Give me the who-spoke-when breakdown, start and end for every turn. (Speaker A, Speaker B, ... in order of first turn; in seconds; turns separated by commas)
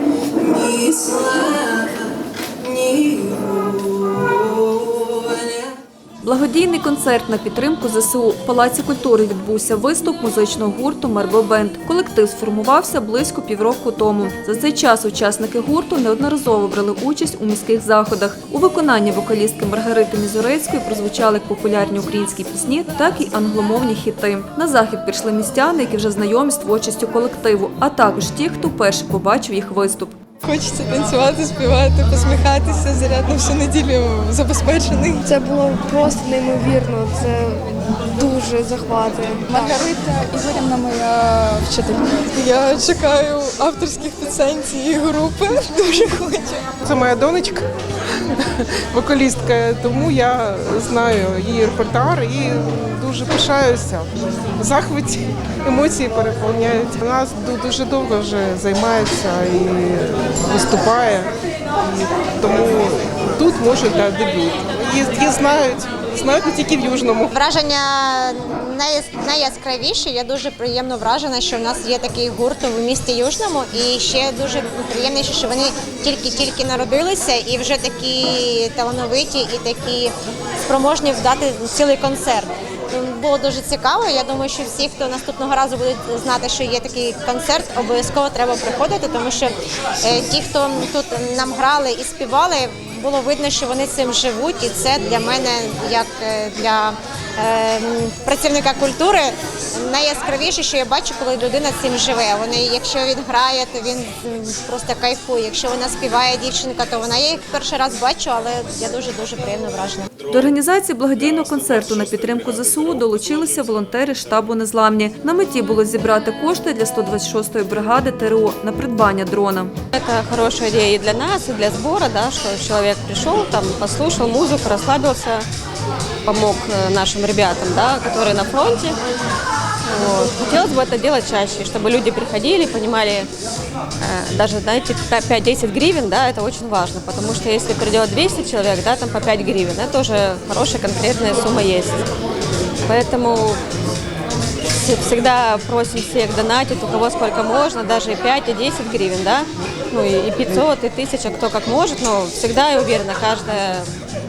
Speaker A: 0.4-2.1, Speaker A: 2.6-5.7, Speaker B: 6.2-30.1, Speaker A: 30.4-35.3, Speaker C: 35.2-39.8, Speaker A: 39.5-46.7, Speaker D: 46.8-47.6, Speaker D: 48.9-67.3, Speaker E: 67.3-80.1, Speaker E: 80.6-110.1, Speaker B: 110.3-119.7, Speaker F: 119.9-125.5, Speaker F: 126.2-129.0, Speaker F: 129.8-133.3, Speaker F: 134.0-142.1, Speaker F: 142.9-143.6, Speaker F: 144.7-153.9